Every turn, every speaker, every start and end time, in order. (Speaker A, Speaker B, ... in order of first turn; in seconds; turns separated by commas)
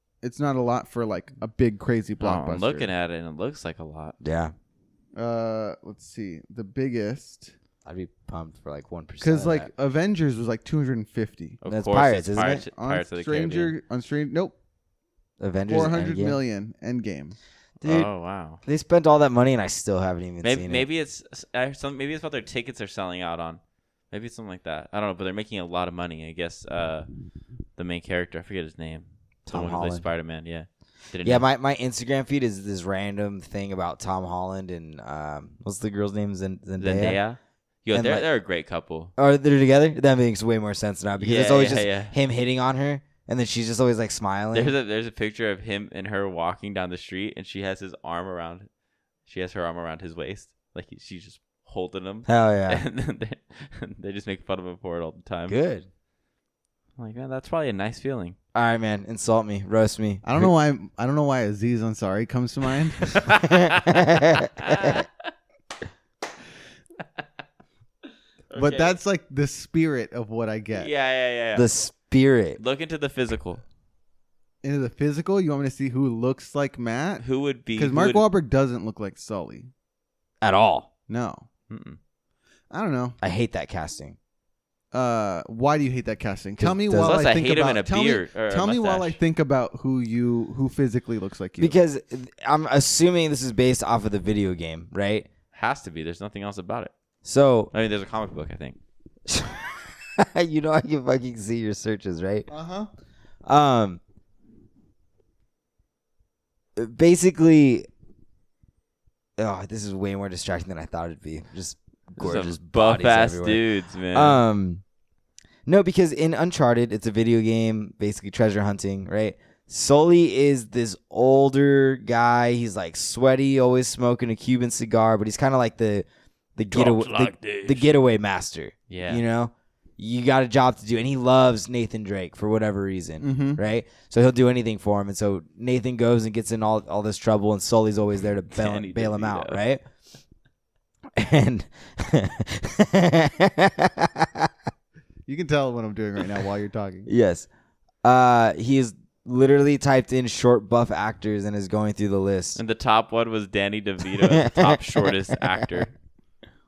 Speaker A: 0.2-2.9, Speaker B: 2.2-4.2, Speaker C: 4.2-4.5, Speaker A: 5.1-7.5, Speaker C: 7.8-9.7, Speaker A: 9.2-11.6, Speaker B: 11.6-13.7, Speaker C: 11.7-12.6, Speaker A: 12.7-14.6, Speaker C: 15.4-16.4, Speaker A: 15.7-17.4, Speaker B: 17.8-18.6, Speaker C: 17.8-18.1, Speaker C: 18.6-20.8, Speaker B: 20.4-27.1, Speaker B: 27.8-31.4, Speaker C: 29.4-30.0, Speaker C: 31.2-37.2, Speaker B: 36.8-39.1, Speaker C: 37.9-38.2, Speaker C: 39.2-44.7, Speaker B: 41.2-42.1, Speaker B: 44.5-48.7, Speaker B: 49.2-55.6, Speaker C: 52.3-52.8, Speaker C: 55.5-55.9, Speaker B: 57.0-58.4, Speaker C: 58.5-60.5, Speaker A: 60.2-63.2, Speaker B: 63.0-65.1, Speaker C: 63.4-65.0, Speaker B: 68.5-68.9, Speaker A: 68.5-70.9, Speaker B: 70.7-71.7, Speaker C: 71.5-72.6, Speaker B: 72.6-73.6, Speaker A: 74.6-79.7, Speaker B: 77.2-78.2, Speaker C: 80.4-80.9, Speaker A: 81.1-81.5, Speaker B: 81.7-82.0, Speaker A: 82.7-83.2, Speaker C: 83.2-84.2, Speaker A: 84.9-91.8, Speaker C: 86.6-87.2, Speaker B: 87.0-89.2, Speaker C: 91.6-95.3, Speaker B: 95.5-96.9, Speaker C: 97.2-97.7, Speaker B: 97.7-98.8, Speaker C: 99.3-102.5, Speaker A: 102.5-102.9, Speaker C: 103.4-104.0, Speaker C: 106.8-107.9, Speaker C: 109.4-114.8, Speaker B: 112.2-114.4, Speaker C: 115.7-139.8, Speaker B: 126.7-127.9, Speaker B: 128.9-129.2, Speaker A: 133.2-133.6, Speaker B: 138.5-139.6, Speaker C: 141.2-144.5, Speaker A: 145.2-147.1, Speaker C: 147.1-147.5, Speaker C: 148.0-152.6, Speaker B: 152.6-155.9, Speaker C: 154.2-155.8